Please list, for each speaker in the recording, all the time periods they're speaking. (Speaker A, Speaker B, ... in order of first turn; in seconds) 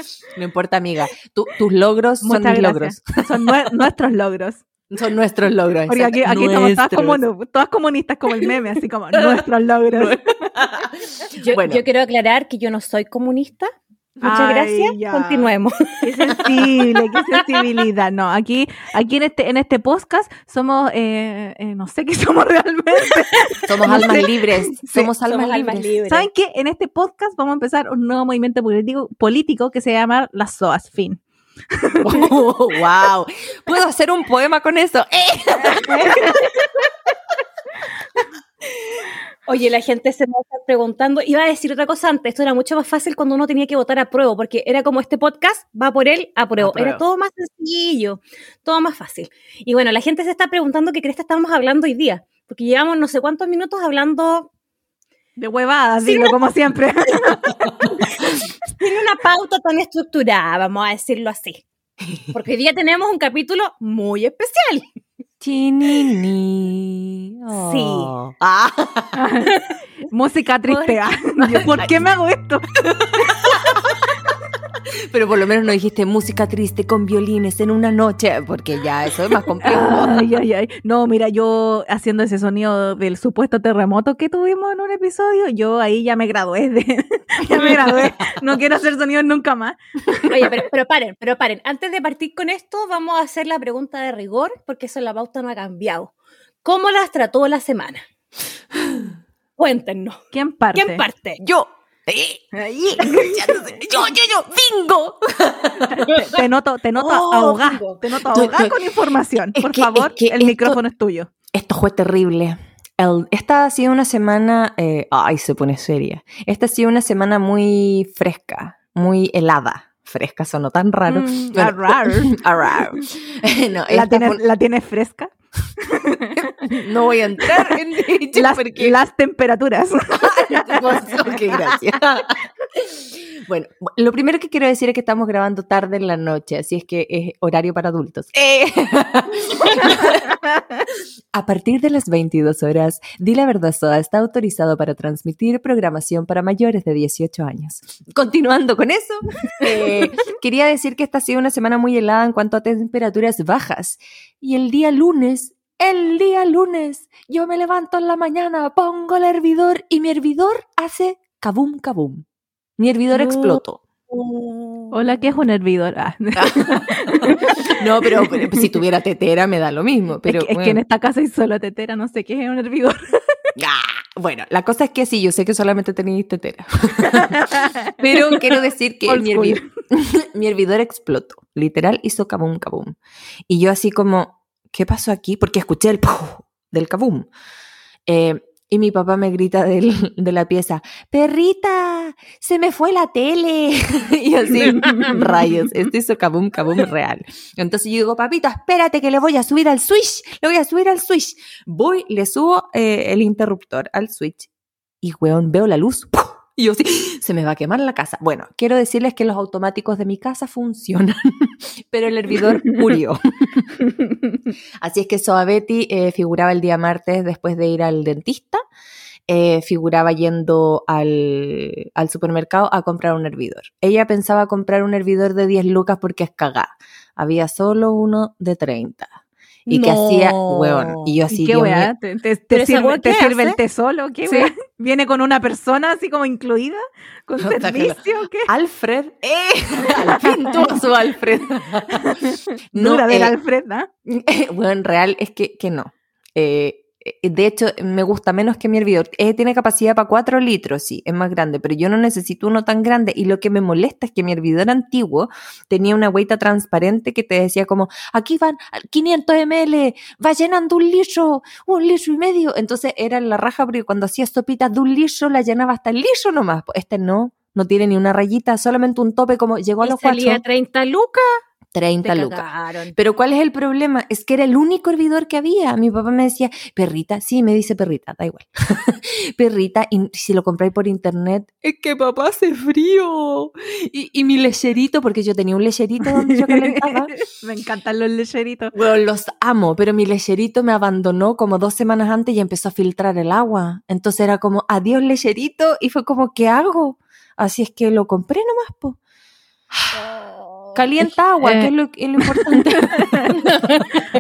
Speaker A: 0.3-3.2, 4.9-7.2, 9.2-9.4, 9.9-11.8, 23.7-25.9, 32.0-36.5, 46.6-47.0, 62.0-62.4, 65.4-69.2, 70.8-72.0, 73.2-73.9, 75.1-80.3, 87.6-87.9, 101.4-106.3, 107.0-108.8, 109.5-110.8, 111.5-124.4, 126.5-129.0, 130.2-140.3, 141.3-162.2, 162.8-163.8, 166.4-170.8, 173.6-183.0, 183.5-187.3, 188.1-204.5, 205.0-213.7, 214.8-218.6, 219.3-229.1, 229.7-231.9, 237.4-243.3, 244.1-270.4, 271.7-272.4, 272.9-287.1, 288.7-299.0, 299.7-300.0, 300.8-303.6
Speaker B: 2.2-4.6, 5.9-10.4, 14.2-15.5, 16.0-25.1, 26.1-31.2, 31.7-32.2, 35.9-36.4, 55.4-58.2, 69.1-69.6, 70.1-73.4, 79.6-89.8, 100.3-101.0, 102.7-103.5, 105.9-111.3, 121.1-122.3, 123.9-126.6, 127.4-127.7, 128.3-131.7, 164.9-168.4, 170.3-173.0, 177.1-178.5, 179.1-179.7, 194.8-195.3, 231.3-238.5, 240.0-240.8, 241.9-243.9, 286.4-288.8, 301.4-303.4
Speaker C: 11.4-13.7, 14.2-16.5, 17.3-17.6, 25.2-26.3, 39.5-54.5, 56.0-56.4, 58.8-61.6, 62.3-64.8, 67.5-68.1, 90.2-96.1, 96.6-98.0, 99.6-100.2, 100.7-101.4, 163.2-164.9, 229.7-231.2, 232.5-233.6, 269.8-271.4, 272.0-272.9, 299.9-300.8, 303.4-303.9